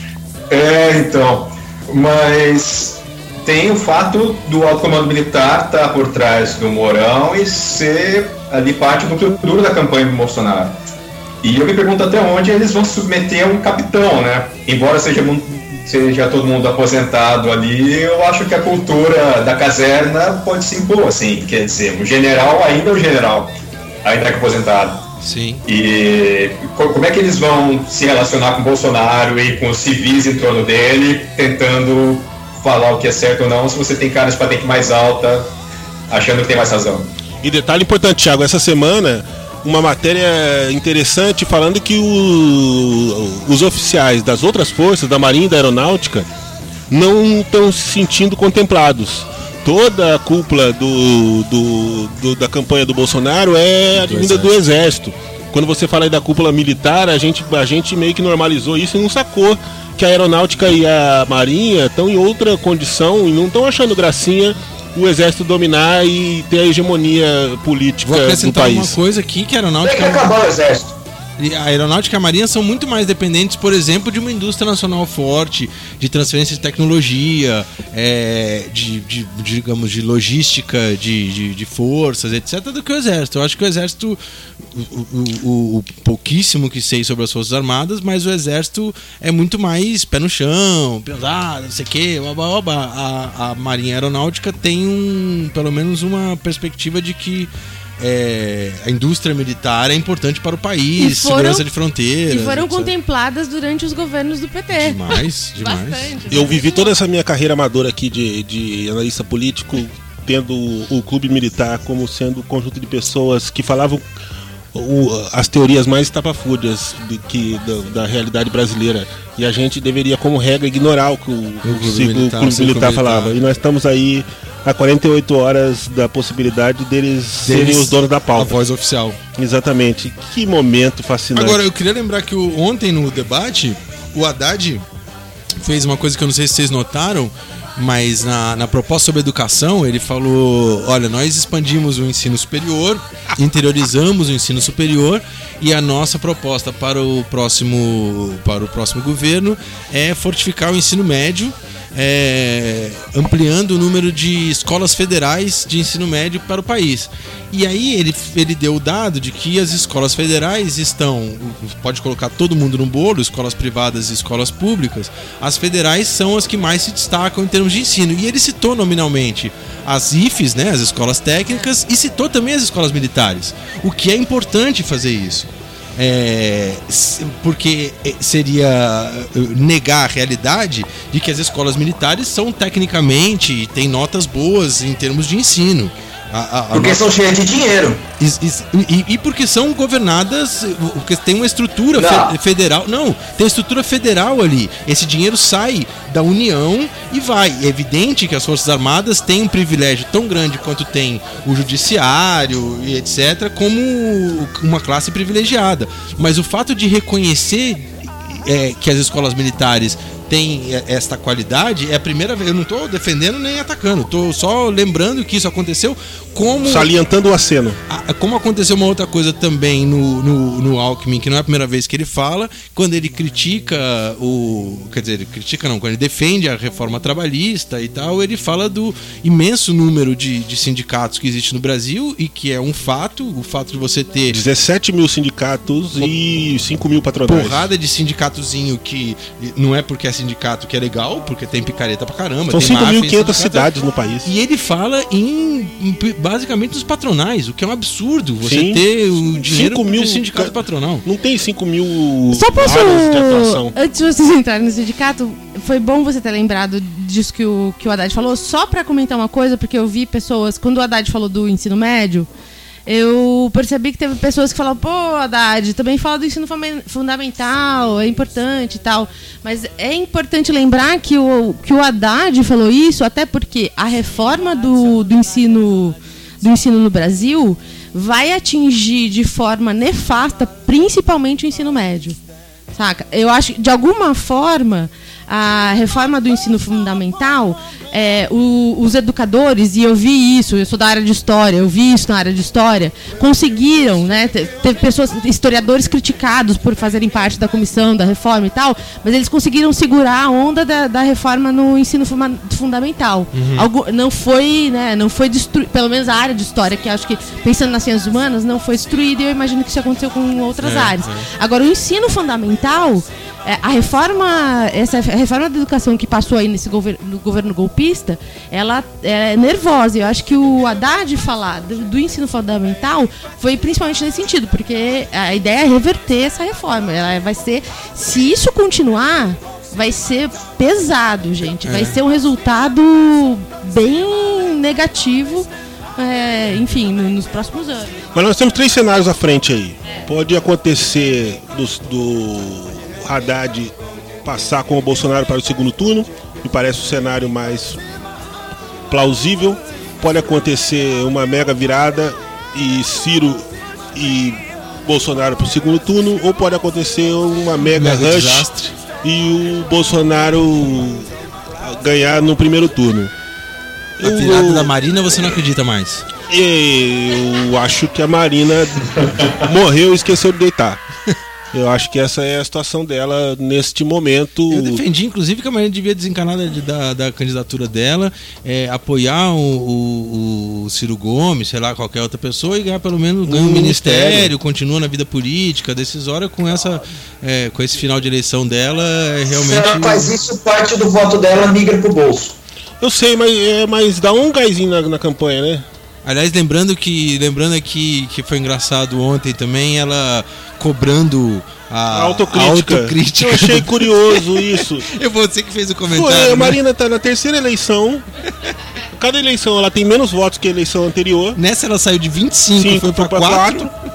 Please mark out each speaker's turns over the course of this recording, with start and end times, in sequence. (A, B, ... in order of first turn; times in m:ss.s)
0:00.5-0:10.8 A
0:11.4-0:25.1 A
0:25.2-0:25.6 B
0:25.6-0:35.5 A
0:36.1-0:37.1 A
0:37.4-0:46.3 C
0:46.9-1:09.0 C
0:54.0-0:54.5 B
1:08.0-1:10.2 B
1:09.8-1:11.0 D
1:11.4-1:42.9 B
1:41.0-1:41.7 E
1:42.3-1:46.9 E
1:44.7-1:46.2 B
1:46.3-1:54.0 C
1:54.7-2:08.6 C
2:01.6-2:03.4 B
2:07.4-2:09.2 B
2:09.4-2:11.6 C
2:11.3-2:14.8 B
2:15.6-3:07.1 B
3:06.7-3:08.0 D
3:08.2-3:36.9 B
3:12.0-3:12.4 D
3:36.6-3:37.8 C
3:37.9-3:54.4 B
3:54.3-3:57.6 C
3:57.2-4:03.7 B
4:02.5-4:04.3 C
4:04.2-4:11.0 B
4:08.4-4:13.7 C
4:12.3-4:22.3 E
4:22.9-4:42.2 E
4:42.7-5:38.0 E
5:03.3-5:03.7 B
5:10.6-5:11.3 B
5:31.6-5:32.0 B
5:38.1-5:47.8 C
5:48.9-6:03.1 C
5:57.7-5:58.7 B
6:04.0-6:04.7 C
6:04.0-6:06.1 B
6:06.2-6:10.8 C
6:11.5-6:14.8 C
6:14.5-6:30.1 B
6:23.2-6:24.3 C
6:29.3-6:32.4 D
6:32.8-6:35.6 C
6:36.0-6:46.6 B
6:41.9-6:44.9 C
6:45.9-6:48.0 C
6:49.0-6:51.4 C
6:51.4-6:53.7 B
6:52.5-6:53.7 C